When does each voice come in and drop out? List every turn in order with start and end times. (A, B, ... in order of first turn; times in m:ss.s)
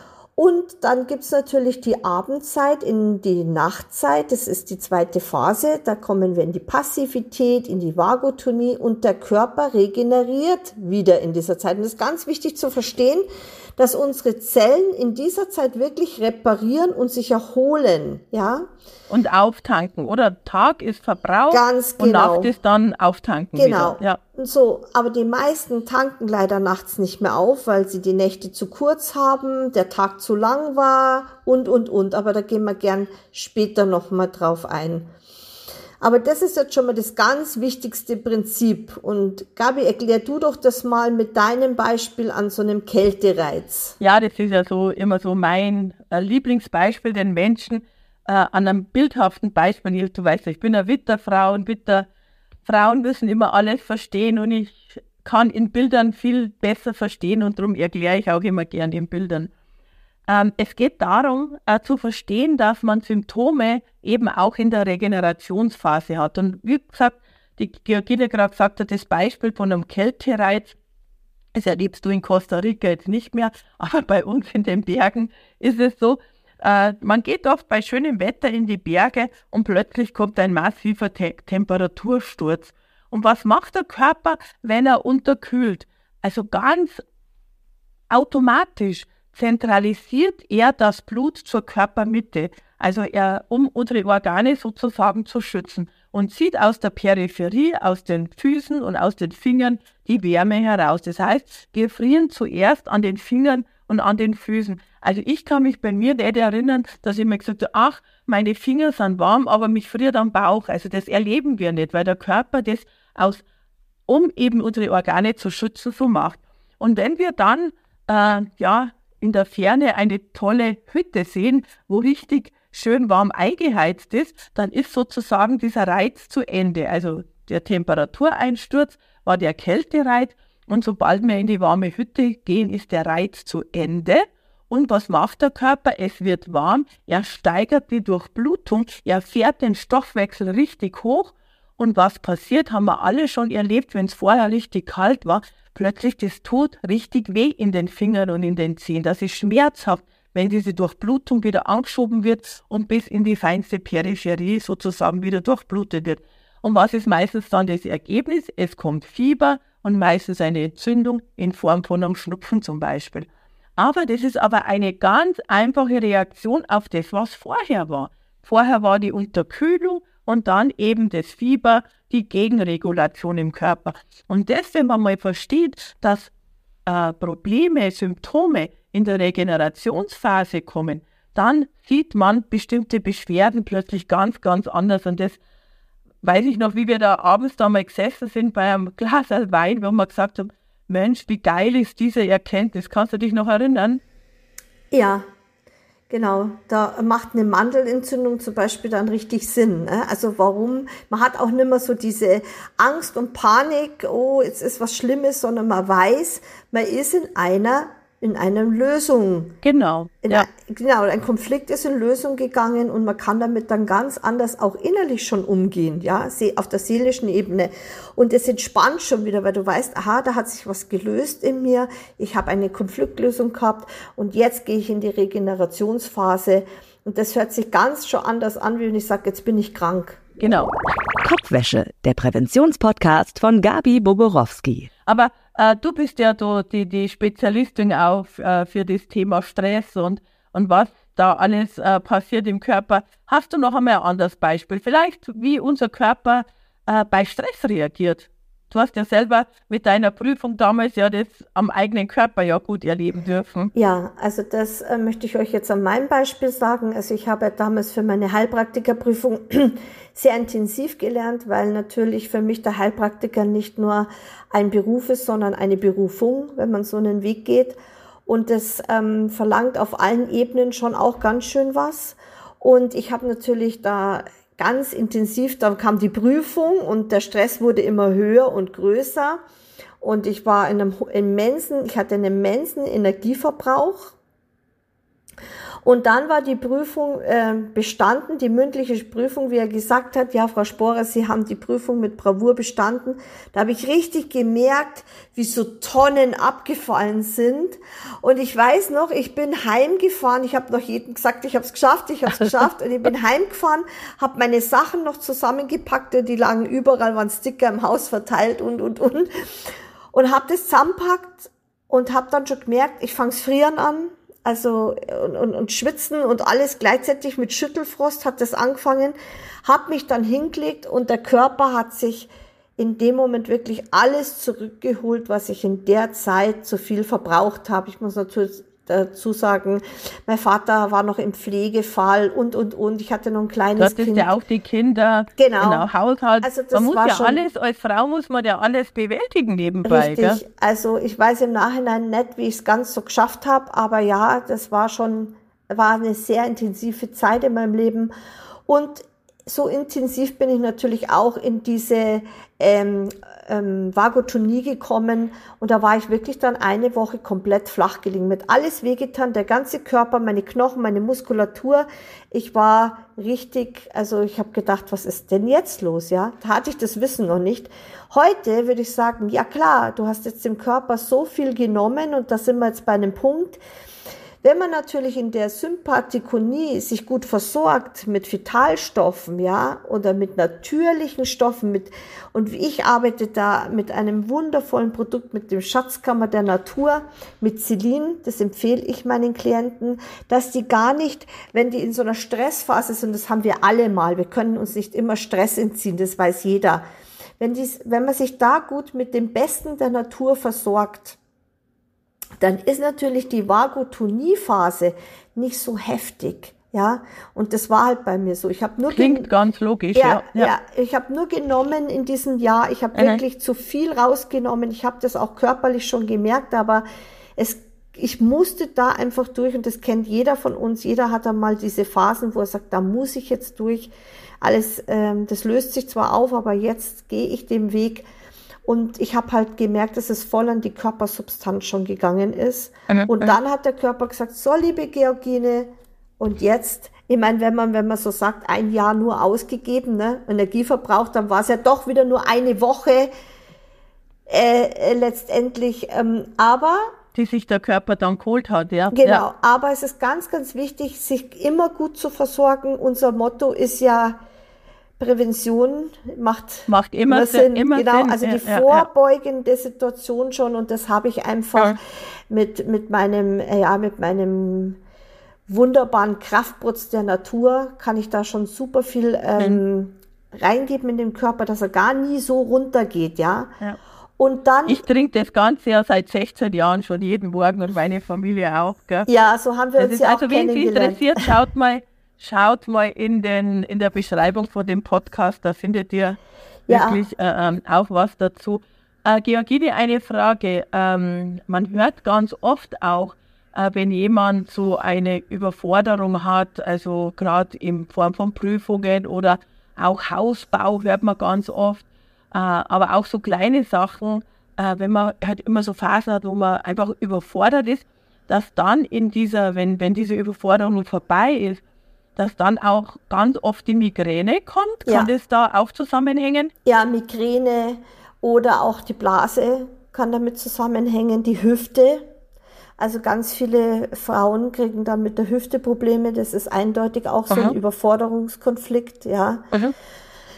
0:00.4-0:18.7 A
0:19.1-0:24.2 B
0:21.5-0:22.5 A
0:23.5-0:35.1 A
0:36.0-0:44.0 A
0:44.0-0:52.1 B
0:52.6-0:59.5 B
1:00.3-1:10.8 B
1:11.5-1:27.0 B
1:28.1-1:53.4 B
1:54.1-2:56.3 B
2:56.8-3:05.4 B
3:06.2-3:14.0 B
3:14.9-3:15.2 A
3:16.1-3:29.6 A
3:29.6-3:30.5 B
3:30.2-3:50.2 A
3:50.4-3:50.7 B
3:51.2-3:54.9 C
3:55.0-4:13.7 B
4:13.7-4:39.4 A
4:40.0-4:44.1 A
4:45.8-5:34.3 A
5:33.8-5:40.4 B
5:35.4-5:35.9 A
5:36.4-5:37.4 A
5:39.8-5:48.1 A
5:48.7-6:13.6 A
6:14.4-6:36.8 A
6:37.4-6:41.2 A
6:42.4-6:49.3 A
6:48.9-6:50.5 B
6:49.9-6:56.8 A
6:52.9-6:53.2 B
6:57.4-7:08.1 A
7:08.6-7:23.1 A
7:12.9-7:13.4 B
7:24.3-7:26.9 A
7:27.1-7:29.2 B
7:28.9-7:34.2 A
7:35.0-7:44.8 A
7:36.7-7:38.8 B
7:45.5-7:53.5 A
7:54.2-7:54.8 A
7:54.6-7:59.1 B
7:59.0-8:01.3 A
7:59.8-8:06.2 B
8:06.7-8:07.0 A
8:06.7-8:31.6 B
8:32.2-8:36.5 B
8:34.8-8:35.1 A
8:36.6-8:42.1 A
8:42.8-8:49.5 A
8:47.3-8:47.6 B